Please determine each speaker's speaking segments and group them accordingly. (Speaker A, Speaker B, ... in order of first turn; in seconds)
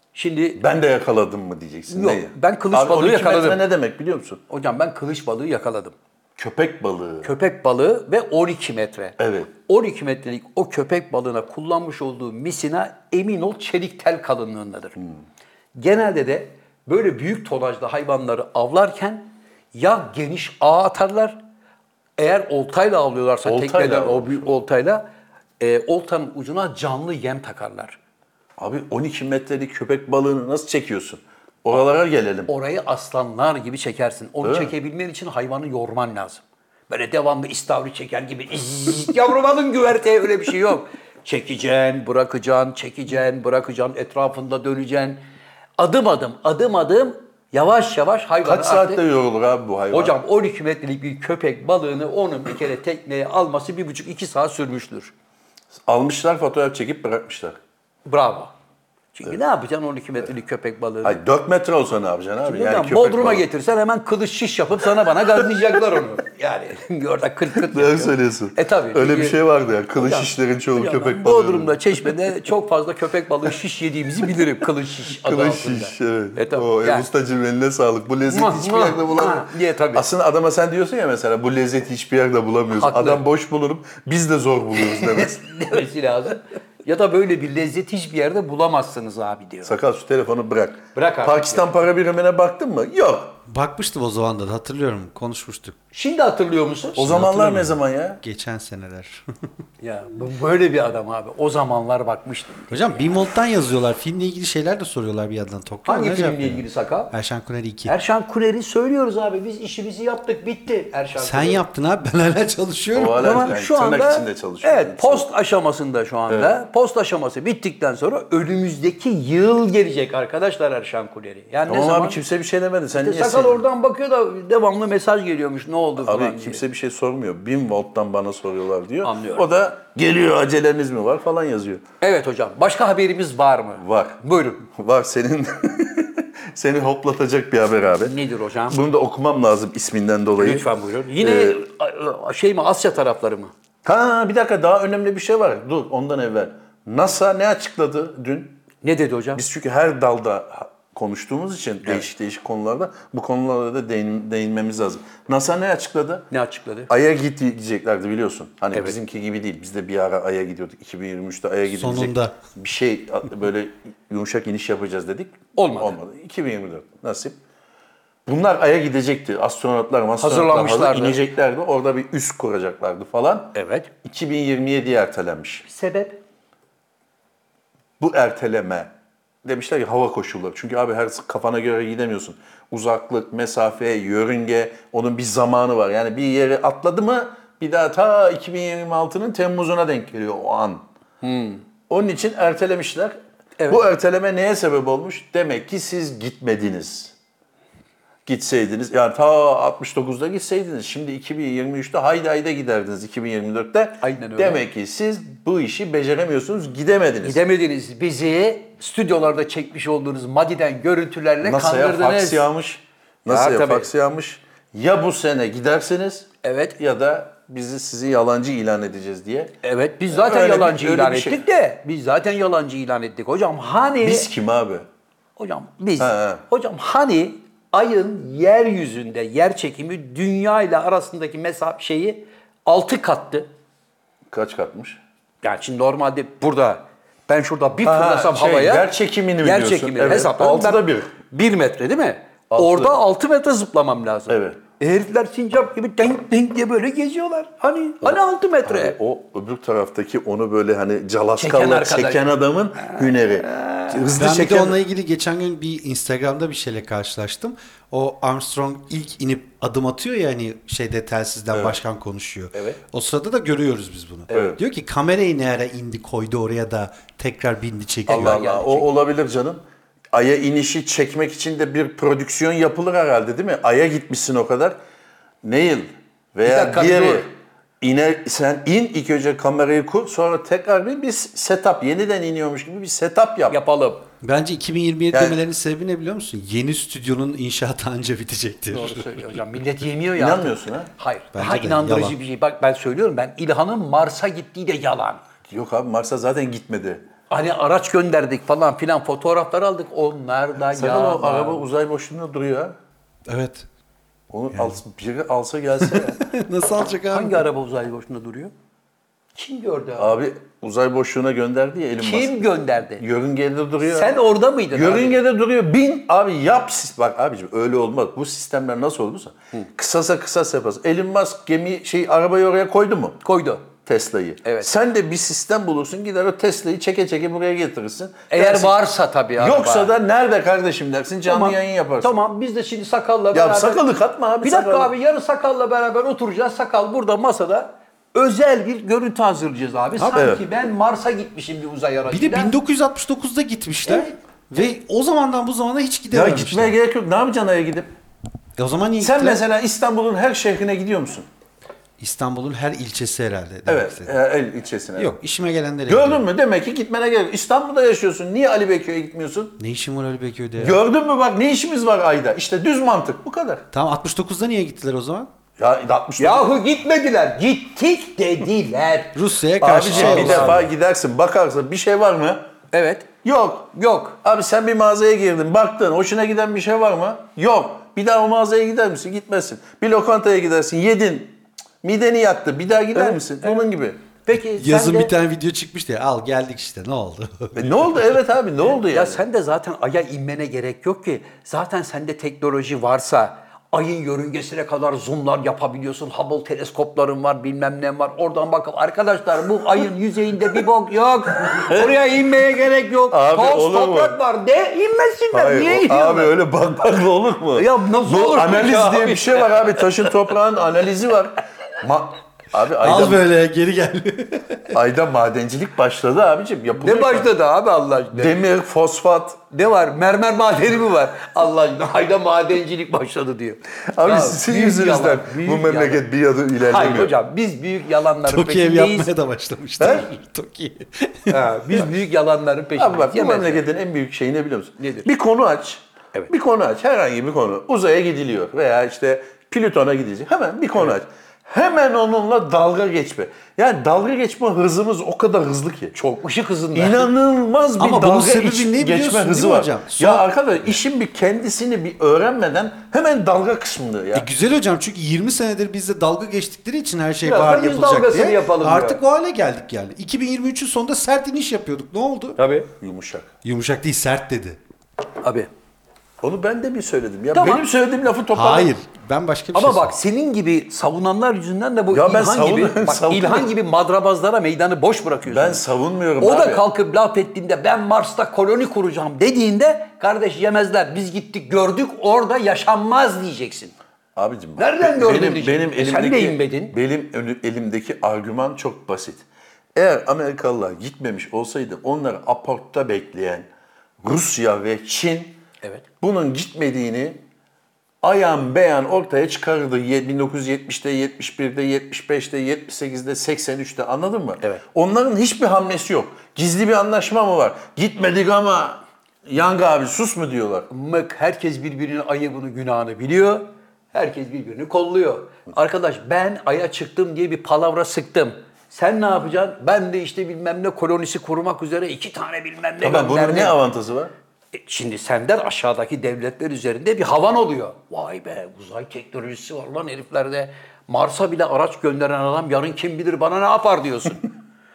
Speaker A: 0.1-0.6, 1.9-3.6, 4.5-6.0, 7.2-15.0, 15.8-21.4, 22.2-25.1, 25.6-28.0, 32.5-45.2, 45.8-49.0, 49.9-55.1, 58.1-58.5, 59.1-61.2, 62.4-69.4, 70.0-77.1, 78.3-80.0, 82.7-83.2, 84.8-89.8, 91.0-91.7, 95.9-97.2, 99.8-103.0, 105.9-107.1, 107.9-111.6, 113.2-122.2, 123.0-126.6, 129.0-129.5, 132.0-134.6, 138.0-138.8, 140.4-143.5, 148.8-149.4, 156.3-156.9, 165.6-166.0, 170.2-171.2, 173.6-173.9, 175.7-176.2, 191.2-191.6, 204.0-204.6, 207.2-212.4, 213.3-213.9, 216.4-216.8, 219.6-224.3, 225.4-233.5, 235.4-238.9, 239.4-249.0, 251.4-252.2, 252.8-254.0, 264.3-264.6, 268.1-268.9, 276.4-277.3, 283.5-284.1, 288.7-295.2, 297.3-301.7, 307.1-308.5, 309.4-310.2, 312.0-313.0, 313.8-315.2, 323.2-323.7, 324.4-324.7, 328.3-329.9, 331.3-333.8, 334.4-342.6, 366.2-369.2, 369.9-370.6, 372.7-373.1, 373.7-374.2, 383.0-383.6, 384.3-385.1, 388.9-406.3, 407.6-410.1, 416.8-418.4, 419.5-426.0, 426.6-429.1, 431.3-433.7, 434.8-435.1, 445.9-447.1, 457.2-459.0, 462.4-462.7, 465.2-465.5, 467.3-467.7, 469.5-475.6, 476.2-483.7, 484.6-486.8, 510.7-523.6, 524.5-534.3
Speaker B: 0.6-4.4, 6.4-7.3, 9.2-9.5, 23.4-24.5, 28.6-32.5, 34.4-34.7, 48.4-50.2, 55.9-57.6, 61.0-63.5, 67.6-72.2, 75.1-85.8, 89.7-93.4, 97.0-98.2, 112.9-115.3, 116.3-116.6, 121.7-123.6, 126.0-131.8, 133.8-138.2, 138.7-140.7, 141.2-141.6, 143.8-148.6, 149.3-156.3, 156.9-167.4, 168.3-175.7, 178.0-178.9, 179.4-190.8, 191.9-193.2, 193.7-197.1, 198.3-207.4, 211.4-219.5, 220.1-221.4, 224.0-224.9, 226.0-226.4, 234.3-235.0, 237.8-241.2, 242.5-243.0, 244.3-244.6, 248.0-254.8, 261.5-261.8, 264.3-264.6, 268.1-269.6, 270.1-274.8, 275.4-277.3, 277.8-283.6, 285.1-285.4, 290.2-290.9, 295.5-297.0, 300.7-302.8, 304.3-306.2, 310.0-314.2, 314.7-323.2, 323.9-328.8, 329.4-332.2, 333.3-334.9, 340.1-340.4, 346.1-347.9, 349.0-351.3, 353.7-355.2, 355.9-359.6, 360.6-363.6, 365.6-366.5, 369.6-372.4, 373.2-373.7, 374.2-384.0, 387.6-389.2, 401.5-401.9, 403.1-404.2, 405.3-413.2, 414.7-417.3, 418.1-419.4, 423.9-427.2, 429.8-430.1, 432.8-445.9, 446.8-454.3, 462.8-463.3, 466.2-468.8, 471.9-473.5, 475.3-476.6, 484.2-493.5, 494.0-495.4, 496.0-497.2, 498.0-510.7, 522.8-524.1
Speaker C: 93.5-95.8, 97.0-99.2, 102.7-107.9, 111.2-113.5, 161.7-162.3, 254.1-268.5, 284.2-289.2, 291.3-292.2, 303.3-303.7, 305.8-307.4, 342.1-346.8, 348.6-349.4, 352.0-354.2, 355.0-356.2, 359.6-360.8, 363.7-365.3, 369.1-370.7, 384.6-388.2, 412.8-414.8, 428.2-431.5, 447.8-450.8, 454.1-462.4, 463.4-464.6, 468.3-469.9